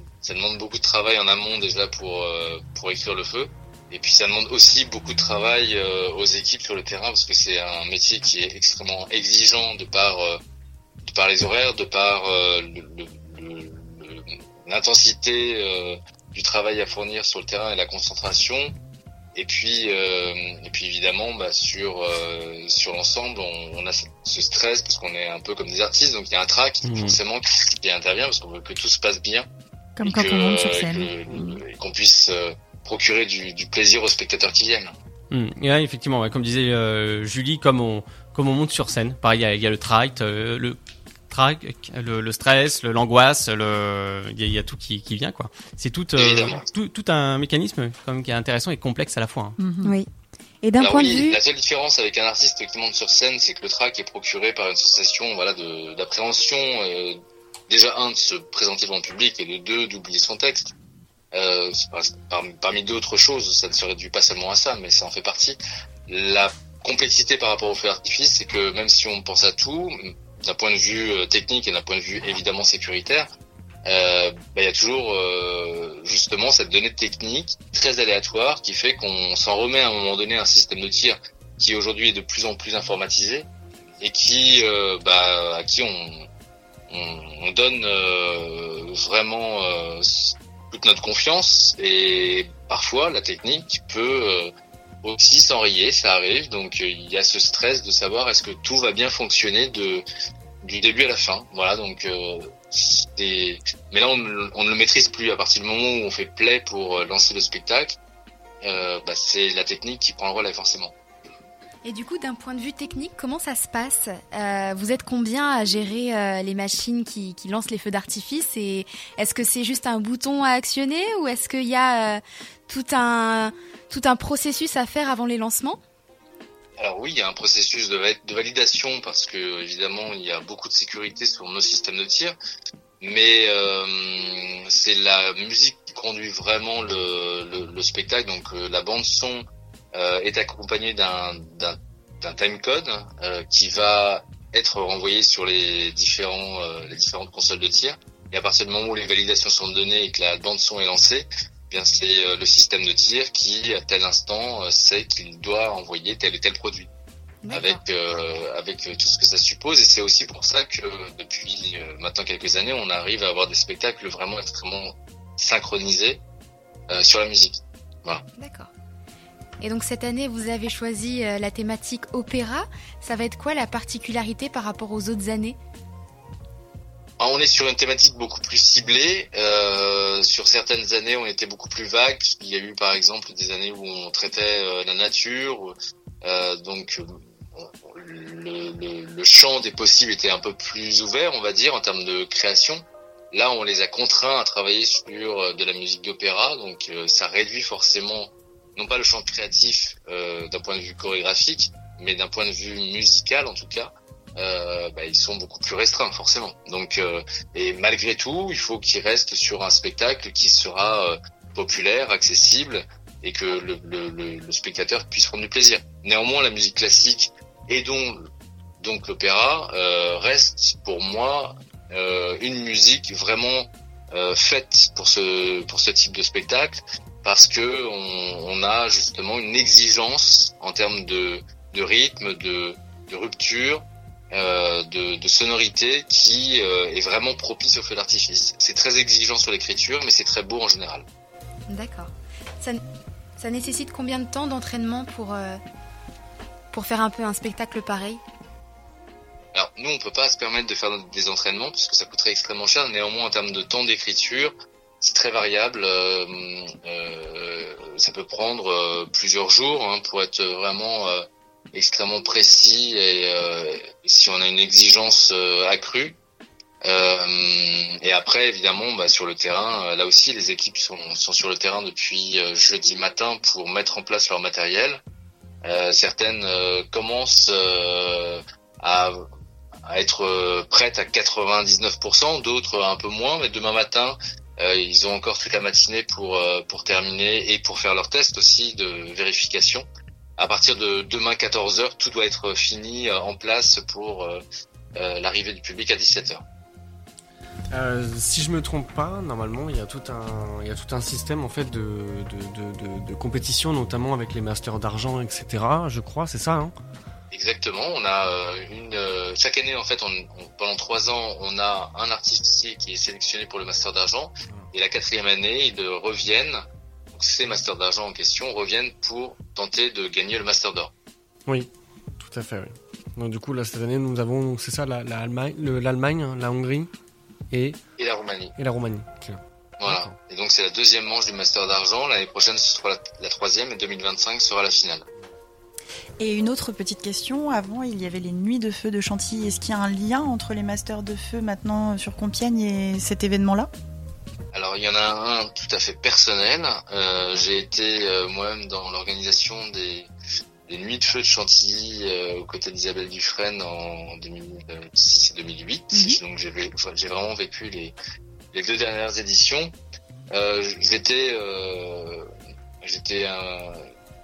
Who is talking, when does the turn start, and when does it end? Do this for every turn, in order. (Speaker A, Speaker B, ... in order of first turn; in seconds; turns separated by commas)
Speaker A: 0.2-10.4, Speaker A: 11.0-18.8, Speaker A: 19.4-29.5, Speaker B: 26.9-27.2, Speaker C: 30.0-31.6, Speaker A: 30.0-34.9, Speaker B: 35.3-40.8, Speaker B: 41.3-49.6, Speaker A: 46.2-46.6, Speaker C: 49.6-49.9, Speaker D: 50.6-51.4, Speaker A: 50.8-60.7, Speaker A: 61.3-73.3, Speaker A: 73.8-83.5, Speaker A: 84.0-86.3, Speaker A: 86.9-94.5, Speaker A: 95.0-100.0, Speaker A: 100.6-108.0, Speaker A: 108.6-110.9, Speaker D: 111.8-125.8, Speaker A: 126.8-132.4, Speaker A: 133.0-156.9, Speaker D: 157.4-157.8, Speaker A: 157.5-166.2, Speaker A: 166.9-168.2, Speaker D: 168.4-168.7, Speaker D: 169.6-175.6, Speaker A: 177.2-218.3, Speaker A: 218.8-241.1, Speaker D: 241.7-242.8, Speaker D: 243.4-245.6, Speaker D: 246.7-248.2, Speaker A: 249.5-266.2, Speaker A: 266.8-275.0, Speaker A: 275.6-279.3, Speaker A: 279.9-289.9, Speaker A: 290.4-294.4, Speaker A: 294.9-296.4, Speaker E: 297.7-306.7, Speaker A: 307.3-316.6, Speaker A: 317.1-320.9, Speaker E: 321.5-326.9, Speaker E: 327.5-327.8, Speaker A: 328.0-328.6, Speaker E: 328.6-330.1, Speaker A: 329.8-335.1, Speaker C: 336.2-343.7, Speaker A: 344.5-350.1, Speaker A: 350.7-357.9, Speaker A: 358.5-359.7, Speaker A: 360.3-362.3, Speaker A: 362.8-363.9